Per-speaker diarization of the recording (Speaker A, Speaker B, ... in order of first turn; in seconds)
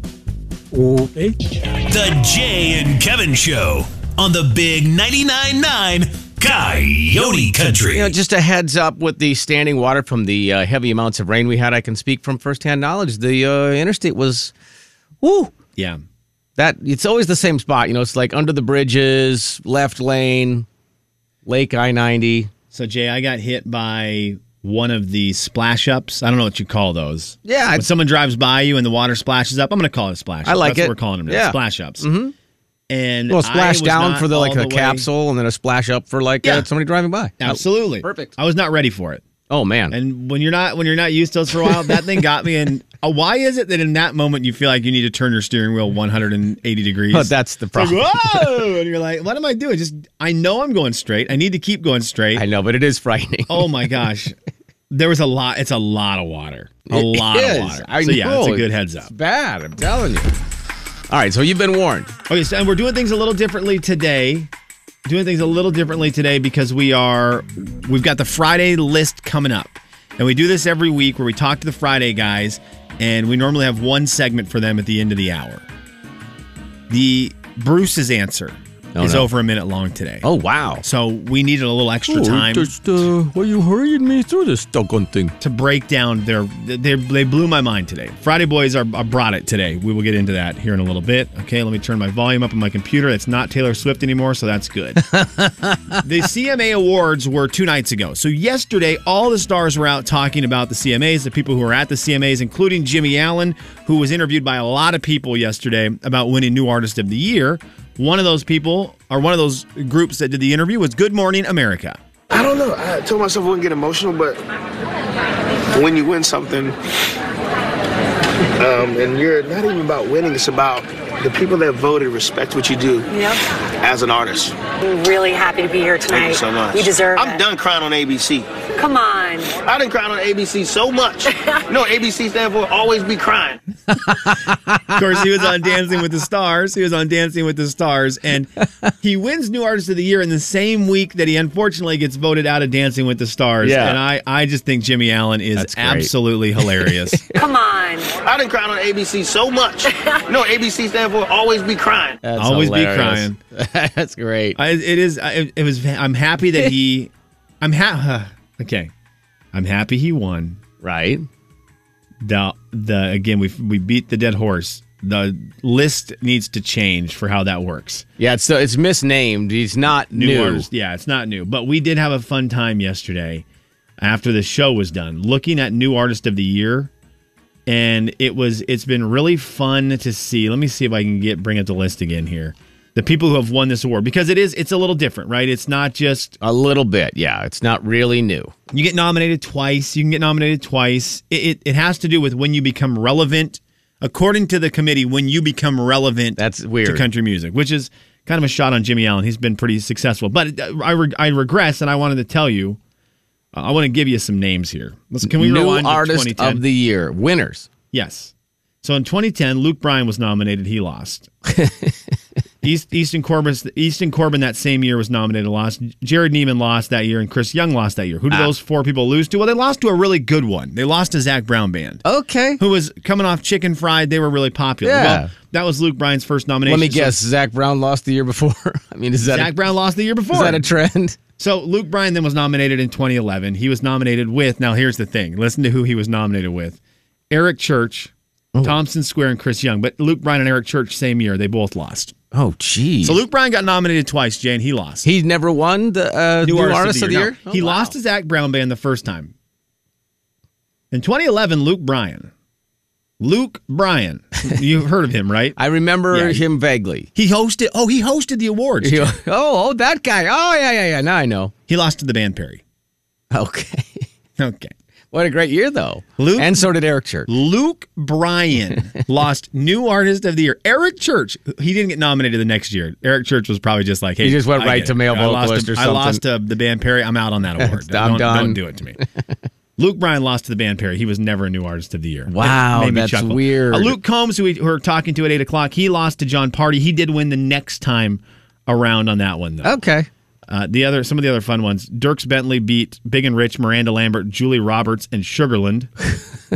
Speaker A: 1.8-8.1
Speaker B: 7.9-14.5, 15.2-15.5, 16.6-20.6, 21.4-22.5, 27.4-27.9, 30.4-32.3, 33.3-38.3, 39.5-40.0, 47.1-48.5, 52.3-53.8, 56.9-60.3, 61.1-62.1, 78.9-79.3, 80.2-80.8, 82.1-85.3, 95.0-96.0, 134.0-135.0, 143.6-144.0, 145.6-146.1, 146.6-147.2, 152.2-154.6, 160.8-161.2, 168.2-170.7, 186.4-188.5, 196.4-197.0, 205.2-207.7, 211.5-211.9, 222.0-222.6, 224.8-225.3, 226.7-229.7, 230.3-231.2, 242.3-243.2, 245.0-247.9, 255.6-257.1, 258.8-261.5, 263.3-264.1, 265.1-267.3, 274.2-276.2, 277.6-278.6, 282.3-283.9, 289.6-290.1
Speaker C: 22.7-32.0, 32.9-35.1, 37.4-39.2, 39.9-52.4, 53.5-54.3, 54.9-59.1, 62.3-64.5, 65.0-75.6, 76.9-80.3, 80.8-82.7, 85.4-95.0, 96.0-112.0, 134.9-138.5, 139.0-147.2, 152.4-153.4, 154.6-158.9, 159.5-160.6, 162.2-168.1, 170.1-173.4, 174.0-176.9, 177.7-186.4, 188.7-202.8, 203.5-206.6, 207.9-211.3, 212.6-222.0, 222.6-227.2, 229.2-230.6, 231.4-236.8, 237.3-238.1, 238.6-242.1, 243.0-245.1, 246.4-249.3, 250.9-252.3, 253.2-255.6, 256.1-256.4, 257.1-259.1, 261.7-262.6, 264.4-264.7, 266.2-266.7, 267.3-279.0, 279.8-289.8, 290.5-295.9
Speaker D: 112.3-114.4, 115.7-116.8, 118.6-123.1, 123.8-124.5, 126.1-128.5, 129.6-133.6, 148.2-152.2
Speaker E: 123.1-123.4, 124.8-127.4, 128.7-129.5, 147.3-148.1